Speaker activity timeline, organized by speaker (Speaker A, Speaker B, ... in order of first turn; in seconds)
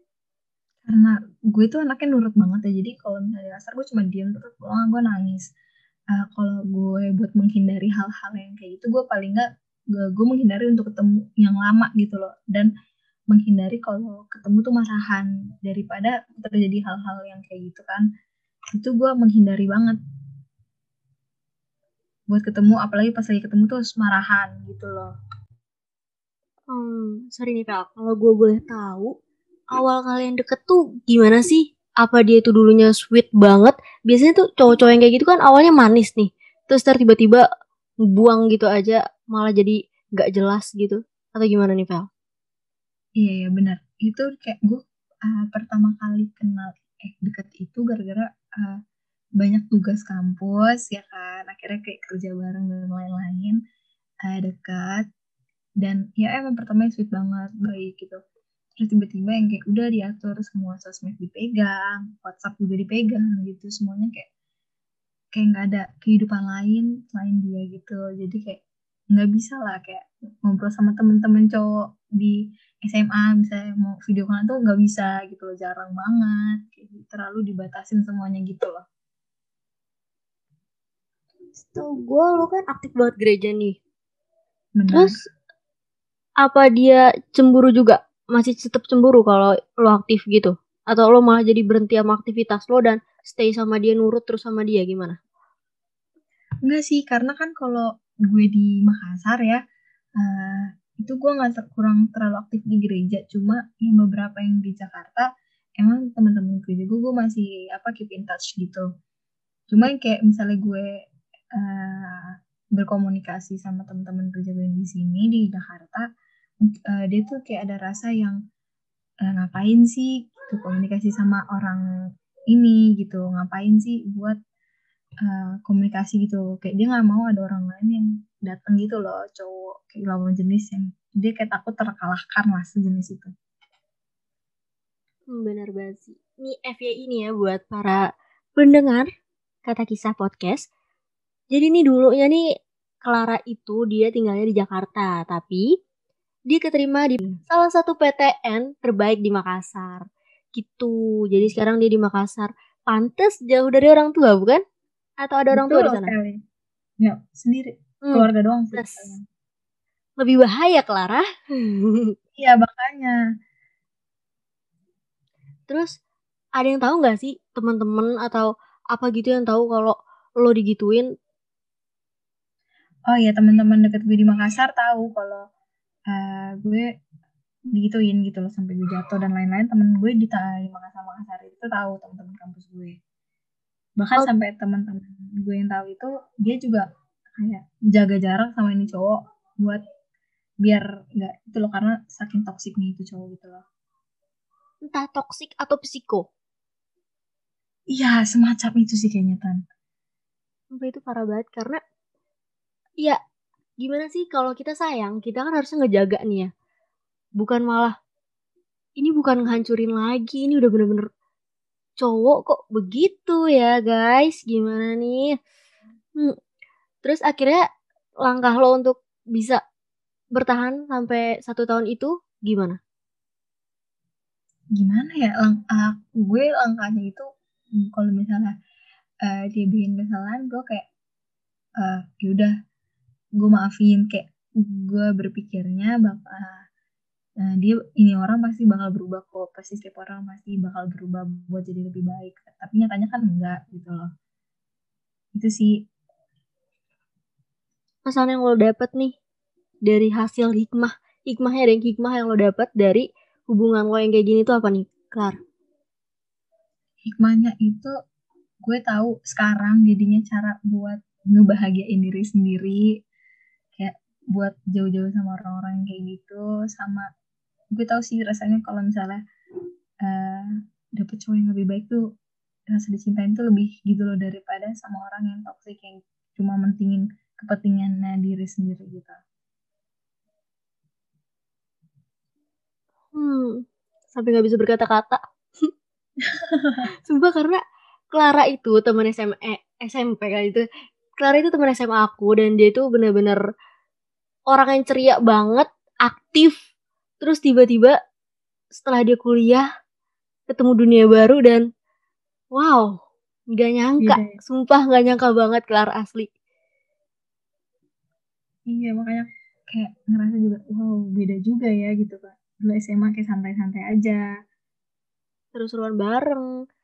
Speaker A: 0.9-5.5, 6.2-12.7, 13.3-18.1, 18.7-20.0, 22.3-25.1, 43.2-48.8, 49.4-53.6, 54.3-55.0, 55.8-58.2, 58.8-64.3, 65.4-68.6, 69.1-78.8, 84.8-85.1, 96.7-99.6, 100.2-105.2, 105.8-108.9, 109.7-110.9, 111.5-116.0, 116.6-118.4, 119.2-121.8, 122.5-124.4, 125.2-133.3, 155.5-156.4, 157.0-159.2, 162.4-163.1, 173.1-175.4, 176.1-176.9, 177.8-183.0, 184.0-186.8, 187.4-189.8, 190.6-193.6, 197.9-199.6, 224.8-227.2, 227.8-228.5, 229.2-230.9, 231.8-232.5, 233.4-236.6, 237.4-244.1, 245.3-245.7, 257.1-257.9, 258.6-262.9, 263.8-267.1, 267.8-269.2, 270.1-272.0, 272.7-279.2, 286.5-286.8, 304.0-304.3, 308.7-314.2
Speaker B: 26.7-29.1, 29.7-37.4, 38.1-42.1, 81.6-83.8, 84.9-85.2, 86.4-95.2, 135.3-138.0, 138.6-139.1, 139.7-140.6, 141.5-142.4, 143.0-145.6, 146.5-150.1, 150.6-154.6, 155.2-156.1, 158.1-159.2, 160.2-162.1, 166.6-171.1, 194.9-196.2, 200.8-201.8, 203.8-206.5, 207.4-207.9, 209.0-211.1, 212.0-215.3, 217.0-217.6, 218.3-219.6, 220.4-222.8, 248.1-249.1, 249.9-255.4, 283.1-283.6, 284.1-285.2, 287.1-287.6, 288.1-290.6, 291.2-293.4, 294.5-296.5, 297.2-298.0, 298.7-299.6, 300.5-301.6, 302.6-302.9, 303.6-306.3, 315.6-316.4